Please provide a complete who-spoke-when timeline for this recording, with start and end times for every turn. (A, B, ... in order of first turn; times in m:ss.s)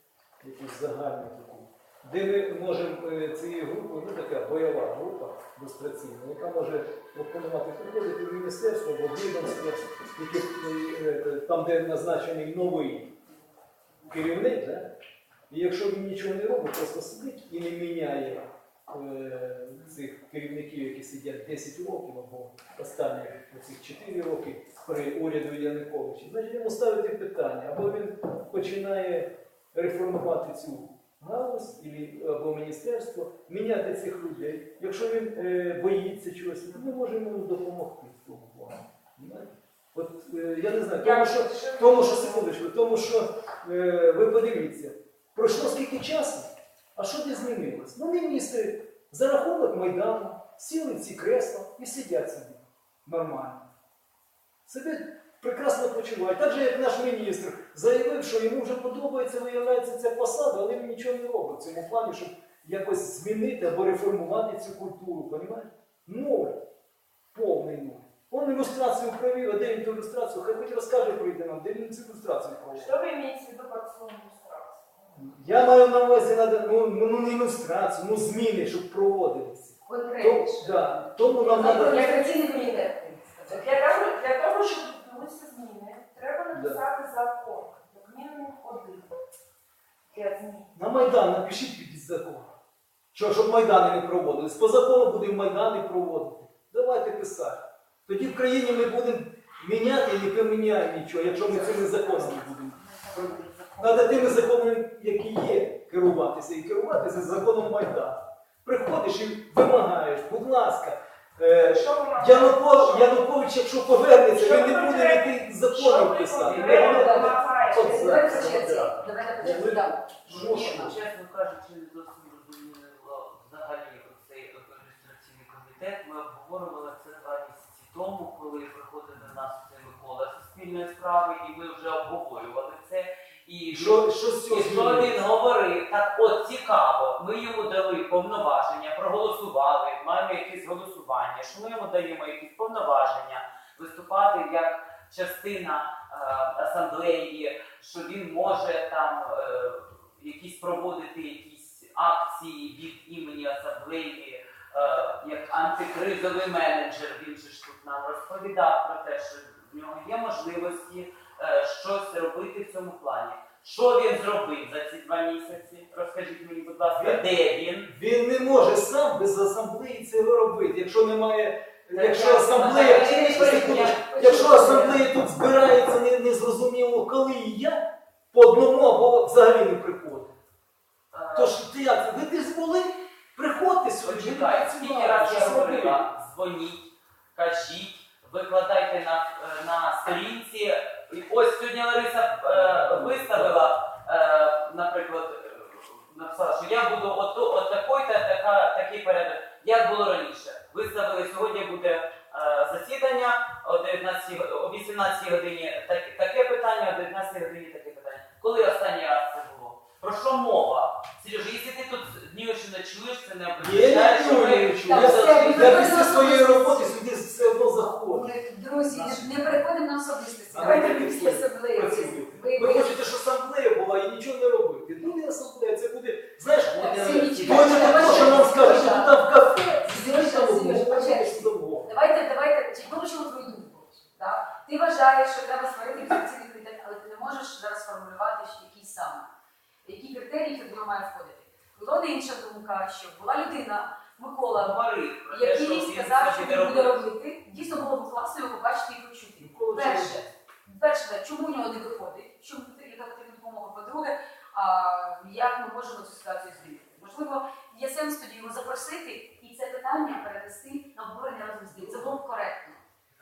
0:00.4-0:13.1 A
0:14.0-0:14.9 A
0:15.5-0:53.6 A
0:41.0-0:42.5 B
0:54.6-1:06.6 A
1:07.3-1:12.9 A
1:12.7-1:15.0 B
1:15.1-1:22.2 A
1:19.8-1:23.7 C
1:21.5-1:22.9 B
1:23.5-1:29.1 B
1:26.5-1:26.8 A
1:30.1-1:30.7 B
1:30.7-1:32.5 A
1:33.1-2:01.0 A
1:41.4-1:44.4 C
1:51.6-1:53.3 B
1:54.3-1:58.6 B
1:56.4-1:56.8 D
1:56.6-2:00.9 C
1:58.6-1:58.9 D
2:00.2-2:47.9 D
2:13.7-2:15.2 A
2:46.9-2:47.2 A
2:47.8-3:00.3 A
2:51.9-2:54.4 D
2:52.3-2:55.0 C
3:01.1-3:01.6 D
3:01.3-3:06.0 A
3:04.0-3:36.2 D
3:12.4-3:13.7 A
3:33.6-3:38.3 A
3:34.8-3:37.0 C
3:38.0-3:43.0 C
3:40.5-3:51.9 A
3:46.7-3:59.3 C
3:47.4-3:48.5 D
3:59.8-4:22.8 C
4:04.5-4:07.0 D
4:09.4-4:10.2 A